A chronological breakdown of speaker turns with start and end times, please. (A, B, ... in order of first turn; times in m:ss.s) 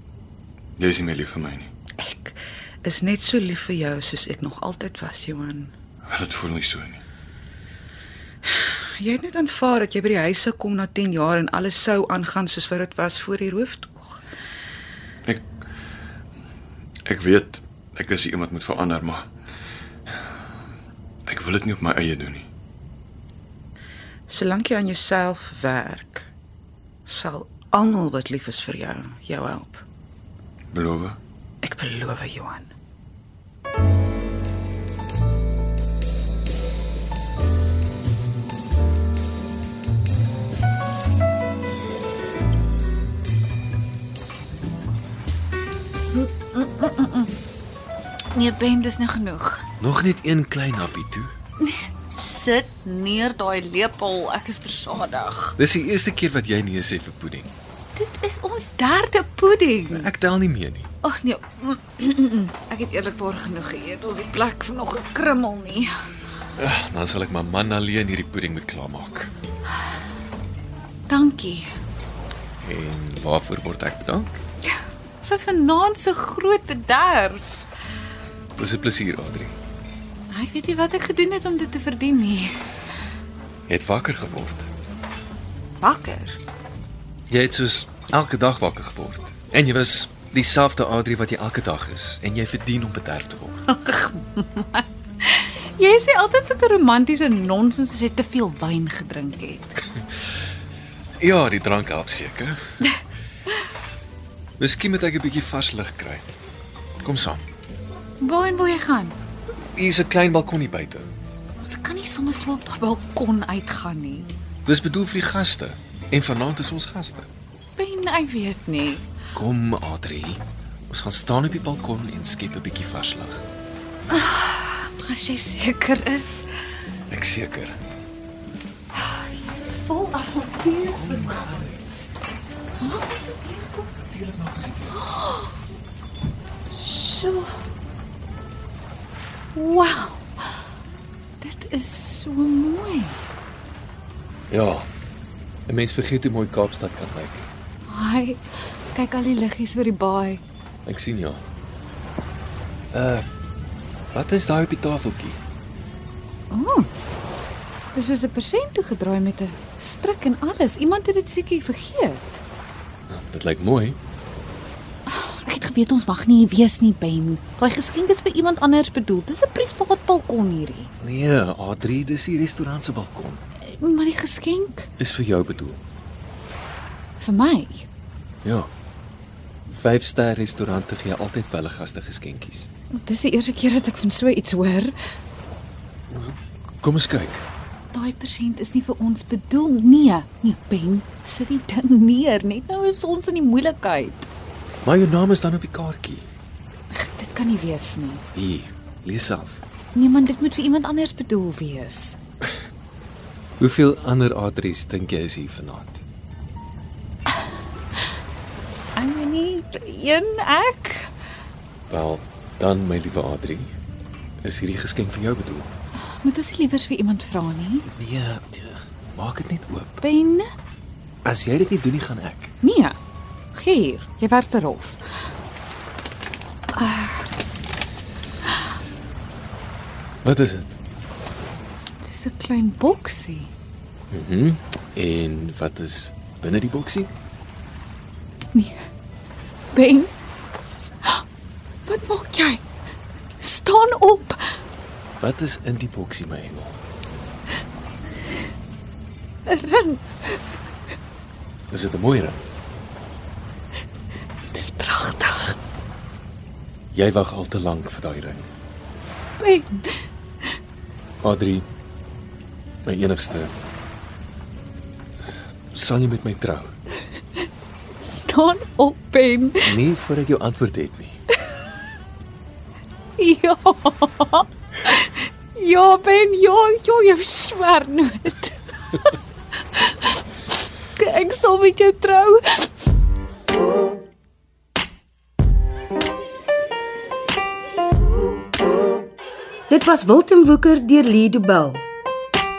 0:00.8-0:01.7 A
0:02.0-0:05.7 B
0:06.1-0:07.0 A
0:09.0-0:14.2 B
0:17.0-0:19.3 A
0:21.3-0:22.5 A
0:24.3-0:26.3 B
0:27.0-0:29.8 B
0:30.7-0:31.2 A
0:31.6-0:32.7 B
0:46.1-0:47.3 C
0:48.3-0:49.6 C
0:49.8-0:51.3 D
0:51.6-0:55.6 C
0:55.6-0:57.5 D
0:57.9-1:00.1 C
0:59.9-1:00.9 D
1:01.0-1:05.9 C
1:06.6-1:09.3 D
1:11.1-1:11.7 C
1:12.6-1:14.4 D
1:15.2-1:17.6 C
1:18.6-1:19.6 D
1:20.3-1:22.6 C
1:23.7-1:24.7 D
1:25.8-1:26.4 C
1:27.3-1:33.7 D
1:33.7-1:39.8 C
1:41.2-1:42.6 D
1:44.6-1:46.2 D
1:47.0-1:47.4 D
1:48.2-1:49.2 C
1:49.7-1:51.1 D
1:51.6-1:54.3 C
1:54.6-1:57.3 D
1:57.8-1:59.1 C
1:59.3-2:03.4 D
2:04.1-2:06.5 C
2:07.1-2:07.8 D
2:08.9-2:11.4 C
2:10.8-2:12.0 D
2:12.7-2:13.2 D
2:12.8-2:13.9 C
2:13.8-2:15.0 D
2:14.9-2:15.5 C
2:16.7-2:17.5 C
2:19.5-2:20.4 C
2:21.4-2:23.2 C
2:24.5-2:24.9 D
2:25.7-2:27.5 D
2:27.9-2:30.4 C
2:30.8-2:31.4 D
2:32.9-2:33.2 D
2:34.1-2:35.4 D
2:36.5-2:36.9 C
2:37.9-2:42.4 C
2:43.1-2:44.0 D
2:45.1-2:50.9 C
2:51.0-2:53.4 D
2:53.7-2:54.9 C
2:55.0-2:55.8 D
2:57.2-2:57.9 C
2:58.4-2:58.7 D
2:59.7-3:02.7 D
3:02.9-3:04.9 C
3:06.1-3:07.4 D
3:07.9-3:14.3 C
3:14.8-3:16.3 D
3:16.9-3:18.2 C
3:18.3-3:19.6 D
3:19.9-3:22.2 C
3:23.6-3:26.0 D
3:28.9-3:31.1 C
3:31.9-3:33.7 D
3:34.4-3:35.7 D
3:36.1-3:37.9 C
3:37.9-3:40.0 D
3:40.0-3:40.5 C
3:41.2-3:42.5 D
3:42.6-3:43.0 C
3:43.5-3:45.0 C
3:46.7-3:47.3 C
3:50.2-3:50.7 D
3:52.0-3:53.5 C
3:54.1-3:57.1 D
3:58.5-3:58.8 C
3:59.7-4:00.1 C
4:01.8-4:02.6 C
4:03.4-4:04.6 C
4:05.2-4:06.8 D
4:09.5-4:10.0 C
4:11.7-4:12.4 D
4:14.5-4:15.6 C
4:16.9-4:18.5 D
4:19.4-4:20.0 C
4:21.2-4:21.6 D
4:22.8-4:23.5 D
4:25.7-4:26.7 D
4:28.0-4:29.7 C
4:29.6-4:31.2 D
4:33.2-4:39.1 C
4:39.7-4:40.1 C
4:41.0-4:42.7 C
4:49.7-4:51.8 E